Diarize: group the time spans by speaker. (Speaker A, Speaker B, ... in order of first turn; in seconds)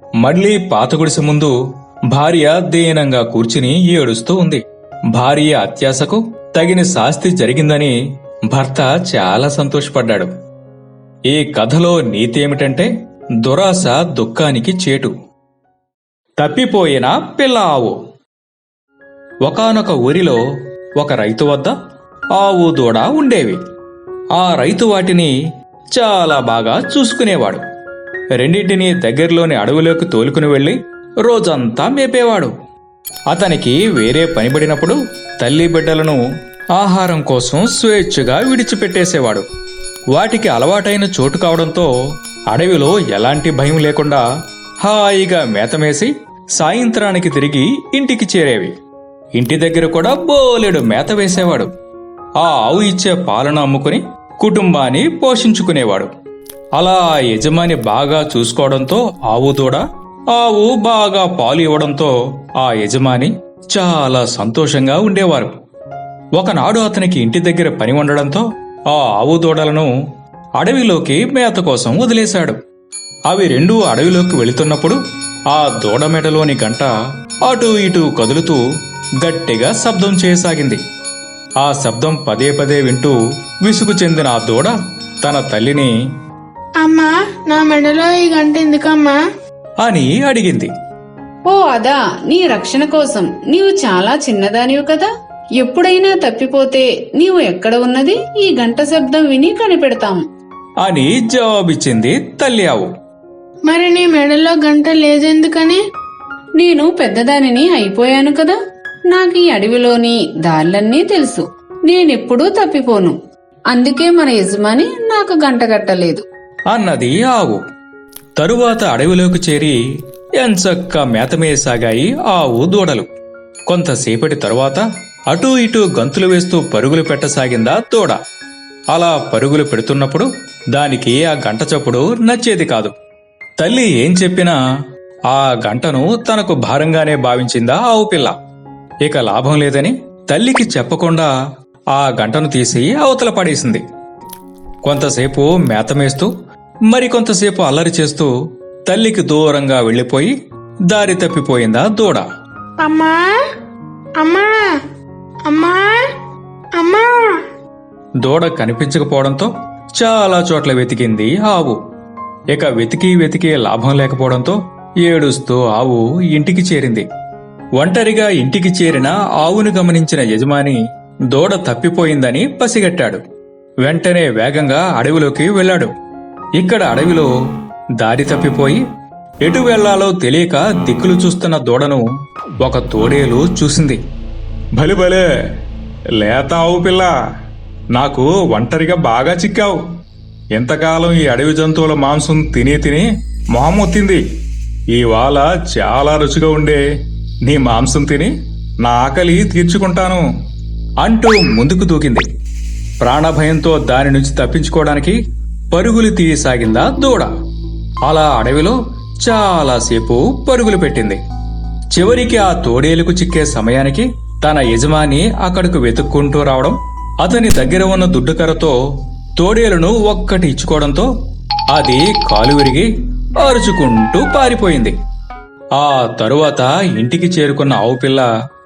Speaker A: 0.2-1.5, 2.1-4.6, 5.2-8.0, 8.5-10.3, 11.3-12.9, 13.4-15.1, 16.4-18.0, 19.4-20.4, 21.0-21.7, 22.4-23.6, 24.4-25.3, 25.9-27.6, 28.4-32.5, 33.3-36.2, 36.8-39.5, 40.1-41.9, 42.5-44.2, 44.8-48.7, 49.4-51.7, 52.4-56.1, 56.8-65.5, 66.4-69.9, 70.6-72.6, 73.3-75.0, 75.5-76.9, 77.5-78.6, 79.2-80.8, 81.6-85.9, 89.8-90.7, 100.8-102.9, 116.7-117.6, 118.4-119.8, 120.4-123.1, 123.7-128.2, 128.9-132.9, 133.6-134.6, 135.3-138.3, 139.1-141.3, 141.9-143.8, 144.8-146.3, 146.9-148.3, 148.9-150.3, 150.9-152.2, 158.2-161.8, 162.5-167.1, 167.8-170.8, 171.3-173.2, 173.8-175.9, 176.6-177.3, 178.0-178.8, 179.4-182.1, 182.6-184.0, 184.8-185.2, 186.2-187.1, 187.9-189.8, 190.5-194.2, 194.9-196.8, 197.5-198.3, 198.8-200.2, 201.0-202.2, 203.0-205.2, 205.7-207.3, 208.1-211.2, 211.9-218.8, 219.4-221.1, 221.7-222.9, 223.4-225.0, 225.8-228.3
Speaker B: 86.8-89.2, 103.7-105.8, 152.8-153.3, 154.2-154.7, 155.5-156.1, 156.8-157.4
Speaker C: 91.5-100.2, 106.6-108.6, 109.1-113.2, 113.7-116.2